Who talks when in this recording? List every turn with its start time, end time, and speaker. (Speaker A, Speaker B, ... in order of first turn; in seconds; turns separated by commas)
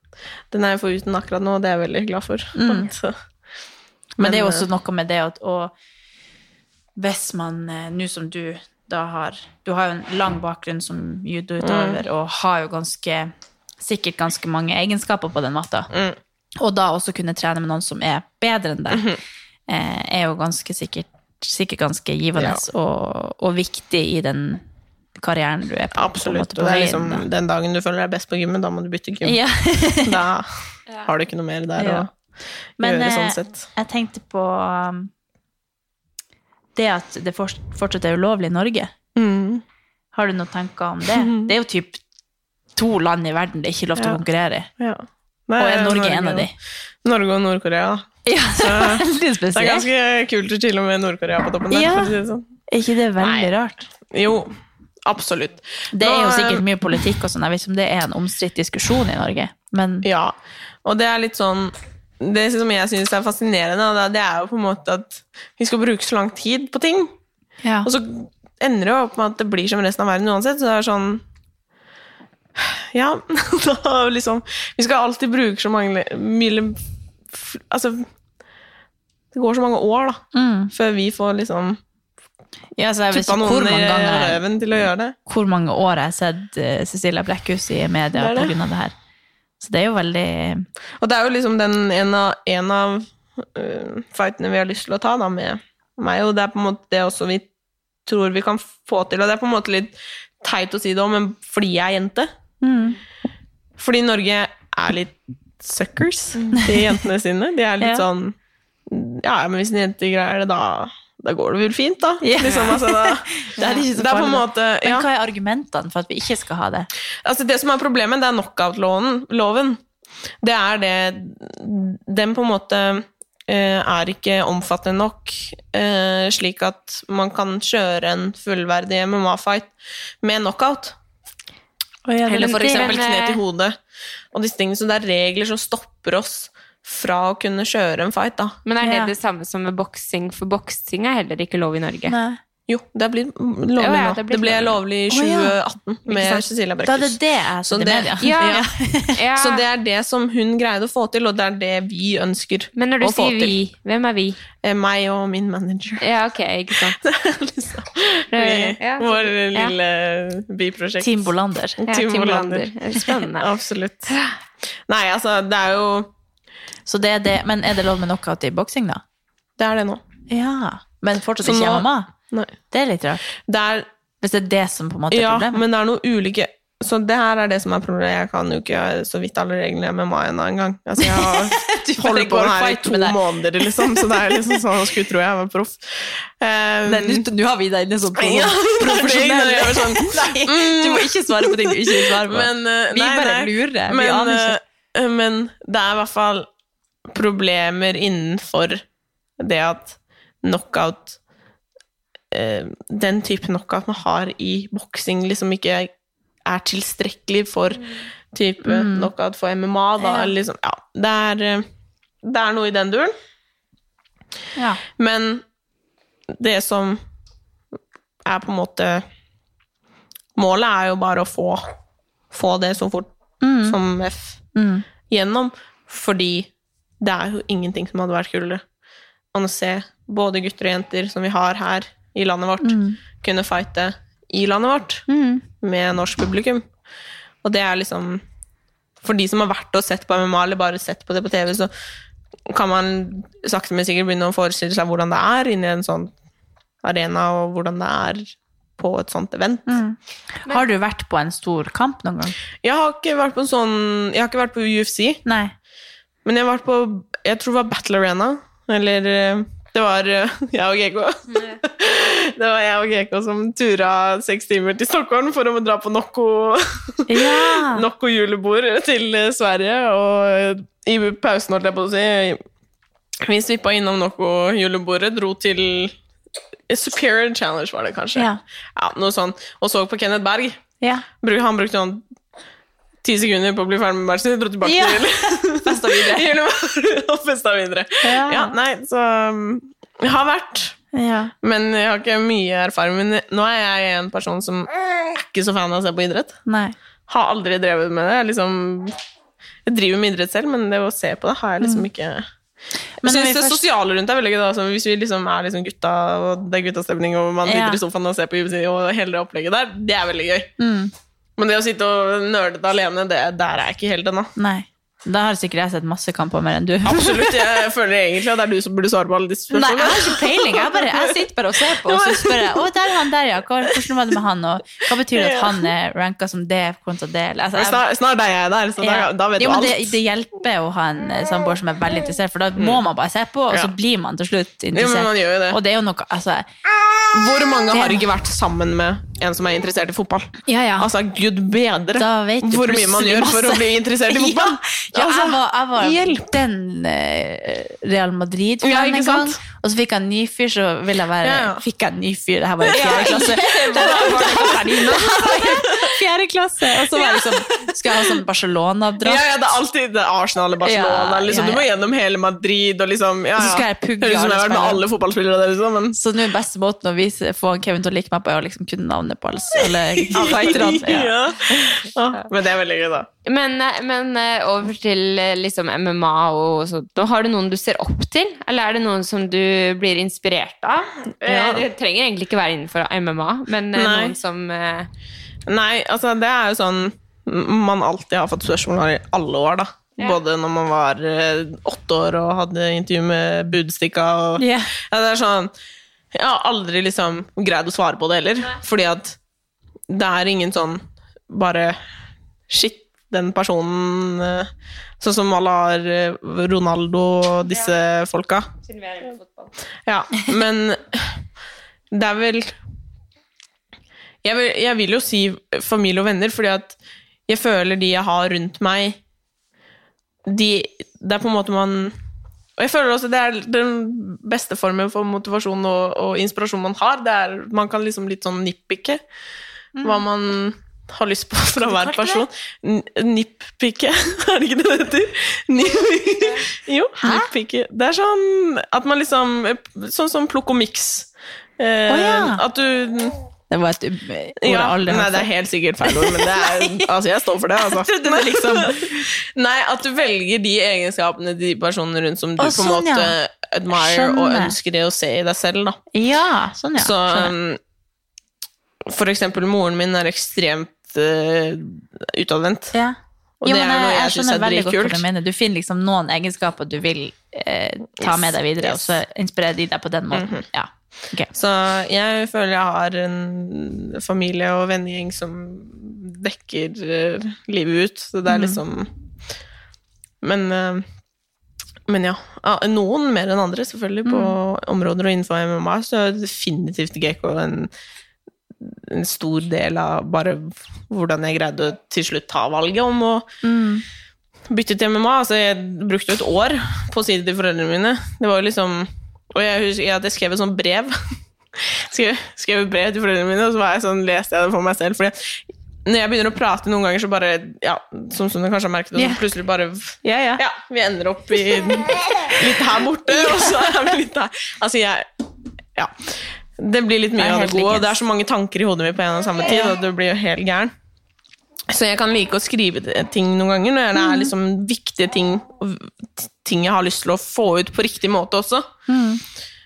Speaker A: 0.5-3.1, Speaker B: 2.5-2.9, Speaker B: 4.2-5.7, Speaker A: 4.2-4.7, Speaker B: 7.0-15.9, Speaker A: 11.6-12.0, Speaker A: 15.9-16.2, Speaker B: 16.6-19.1, Speaker A: 18.9-19.2, Speaker B: 19.7-24.6, Speaker A: 22.4-22.6, Speaker B: 25.1-27.2, Speaker A: 25.9-29.4, Speaker B: 29.2-30.2, Speaker A: 30.0-32.1, Speaker B: 31.8-32.1, Speaker A: 32.8-33.6, Speaker B: 32.8-35.1, Speaker B: 36.8-38.9, Speaker A: 39.1-39.6, Speaker B: 40.1-42.0, Speaker A: 41.1-41.5, Speaker B: 42.8-44.7, Speaker A: 44.0-44.2, Speaker A: 44.8-46.5, Speaker B: 45.6-46.5, Speaker A: 47.0-52.4, Speaker B: 48.2-49.9, Speaker B: 51.7-52.2, Speaker B: 52.7-53.9, Speaker A: 53.2-53.5, Speaker A: 54.0-54.5, Speaker A: 55.0-56.6, Speaker B: 55.9-60.1, Speaker A: 60.0-67.1, Speaker B: 67.6-67.9, Speaker A: 67.8-71.2, Speaker A: 72.5-76.8, Speaker A: 77.3-78.1, Speaker A: 79.3-81.8, Speaker B: 80.3-80.7, Speaker B: 82.8-84.4, Speaker A: 83.1-85.2, Speaker B: 85.3-88.9, Speaker A: 88.2-88.5, Speaker B: 89.6-90.7, Speaker A: 91.0-97.5, Speaker A: 98.1-102.3, Speaker B: 102.6-103.0, Speaker A: 103.8-108.4, Speaker C: 106.3-106.7, Speaker B: 106.5-106.8, Speaker A: 108.9-115.1, Speaker B: 112.2-116.9, Speaker A: 117.2-119.8, Speaker A: 120.4-131.0, Speaker B: 132.1-133.0, Speaker A: 132.2-133.8, Speaker C: 132.3-133.4, Speaker A: 134.3-138.6, Speaker C: 138.7-142.2, Speaker B: 138.8-139.1, Speaker B: 142.1-142.4, Speaker A: 142.7-148.7, Speaker C: 143.8-144.8, Speaker B: 145.1-145.5, Speaker C: 146.1-146.4, Speaker B: 146.8-149.2, Speaker C: 148.2-149.6, Speaker A: 149.3-153.5, Speaker C: 152.8-154.4, Speaker A: 154.6-156.1, Speaker C: 156.0-157.0, Speaker A: 156.7-161.3, Speaker C: 158.3-159.8, Speaker B: 161.0-161.9, Speaker A: 161.8-162.7, Speaker C: 161.9-163.5, Speaker A: 163.4-164.2, Speaker C: 164.1-164.3, Speaker A: 164.9-166.1, Speaker B: 166.9-169.0, Speaker A: 169.6-170.0, Speaker B: 170.3-172.1, Speaker A: 171.4-172.5, Speaker B: 172.7-173.2, Speaker A: 173.3-173.9, Speaker B: 174.2-175.6, Speaker A: 175.1-187.2, Speaker B: 181.0-184.5, Speaker B: 186.9-194.6, Speaker A: 188.2-196.5, Speaker A: 197.1-198.8, Speaker A: 199.4-201.2, Speaker A: 202.3-205.9, Speaker A: 206.4-211.7, Speaker B: 208.6-209.1, Speaker B: 210.0-210.3, Speaker A: 212.2-213.1, Speaker B: 214.6-214.8, Speaker A: 215.0-215.4, Speaker A: 216.4-217.0, Speaker A: 218.2-219.0, Speaker A: 220.4-221.7, Speaker A: 222.3-223.1, Speaker B: 223.4-223.8, Speaker A: 223.7-224.4, Speaker B: 224.5-224.9, Speaker A: 225.1-228.7, Speaker A: 229.3-235.1, Speaker B: 232.6-233.0, Speaker B: 235.1-235.4, Speaker A: 235.6-236.7, Speaker A: 237.4-238.2, Speaker A: 239.0-241.7, Speaker A: 242.5-246.1, Speaker A: 246.8-249.8, Speaker B: 249.7-252.4, Speaker A: 252.6-255.2, Speaker B: 255.2-255.5, Speaker A: 256.2-272.4, Speaker B: 267.1-267.9, Speaker A: 273.2-276.0, Speaker A: 276.7-280.6, Speaker B: 278.1-278.4, Speaker B: 280.8-281.1, Speaker A: 281.2-282.0, Speaker A: 283.0-290.8, Speaker B: 284.6-286.3, Speaker B: 288.0-288.5, Speaker B: 290.9-291.3, Speaker A: 291.4-296.4, Speaker B: 296.5-296.8, Speaker A: 297.1-299.0, Speaker A: 299.6-302.3, Speaker B: 301.6-301.9, Speaker B: 303.0-303.6, Speaker A: 303.0-310.5, Speaker B: 307.4-307.8, Speaker B: 310.6-310.9, Speaker A: 311.4-314.3, Speaker B: 314.4-317.5, Speaker A: 316.9-322.7, Speaker B: 319.5-327.8, Speaker A: 325.1-325.7, Speaker A: 327.6-329.9, Speaker B: 328.8-336.5, Speaker A: 332.6-332.8, Speaker A: 334.7-335.6, Speaker A: 337.1-346.4, Speaker B: 337.7-338.1, Speaker B: 340.5-340.9, Speaker B: 342.0-359.2, Speaker A: 348.6-349.4, Speaker A: 351.2-351.6, Speaker A: 352.6-354.7, Speaker C: 352.8-355.6, Speaker A: 356.9-358.2, Speaker A: 359.0-366.0, Speaker B: 360.6-361.6, Speaker B: 363.4-364.8, Speaker B: 365.9-371.2, Speaker A: 370.0-373.1, Speaker C: 370.2-370.6, Speaker C: 373.2-384.9, Speaker A: 381.2-381.6, Speaker A: 383.8-384.2, Speaker A: 385.5-395.5, Speaker B: 394.4-394.8, Speaker A: 396.1-399.2, Speaker A: 399.9-401.8, Speaker A: 402.5-408.5, Speaker C: 408.6-409.5, Speaker A: 409.9-411.2, Speaker A: 411.9-412.6, Speaker A: 414.2-416.8, Speaker A: 417.3-419.0, Speaker A: 420.2-421.9, Speaker A: 422.6-429.0, Speaker B: 429.8-430.0, Speaker A: 429.8-443.1, Speaker B: 431.6-432.2, Speaker B: 437.0-437.3, Speaker B: 441.9-442.4, Speaker B: 443.5-445.3, Speaker A: 444.4-455.8, Speaker B: 445.8-446.9, Speaker B: 447.6-449.1, Speaker B: 452.4-453.1, Speaker B: 453.7-454.5, Speaker B: 455.9-457.3, Speaker A: 456.8-457.6, Speaker A: 458.9-462.8, Speaker B: 462.7-471.3, Speaker A: 463.4-465.0, Speaker A: 468.0-469.0, Speaker A: 470.1-470.5, Speaker A: 471.3-478.9, Speaker B: 478.3-478.6, Speaker A: 480.2-480.9, Speaker A: 481.9-487.7, Speaker B: 484.0-484.4, Speaker A: 488.6-493.3, Speaker B: 493.4-493.8, Speaker A: 494.5-515.1, Speaker B: 509.0-509.2, Speaker C: 510.0-510.4, Speaker A: 515.8-520.7, Speaker B: 517.2-517.9, Speaker A: 521.7-528.7, Speaker B: 524.0-524.3, Speaker B: 528.9-529.2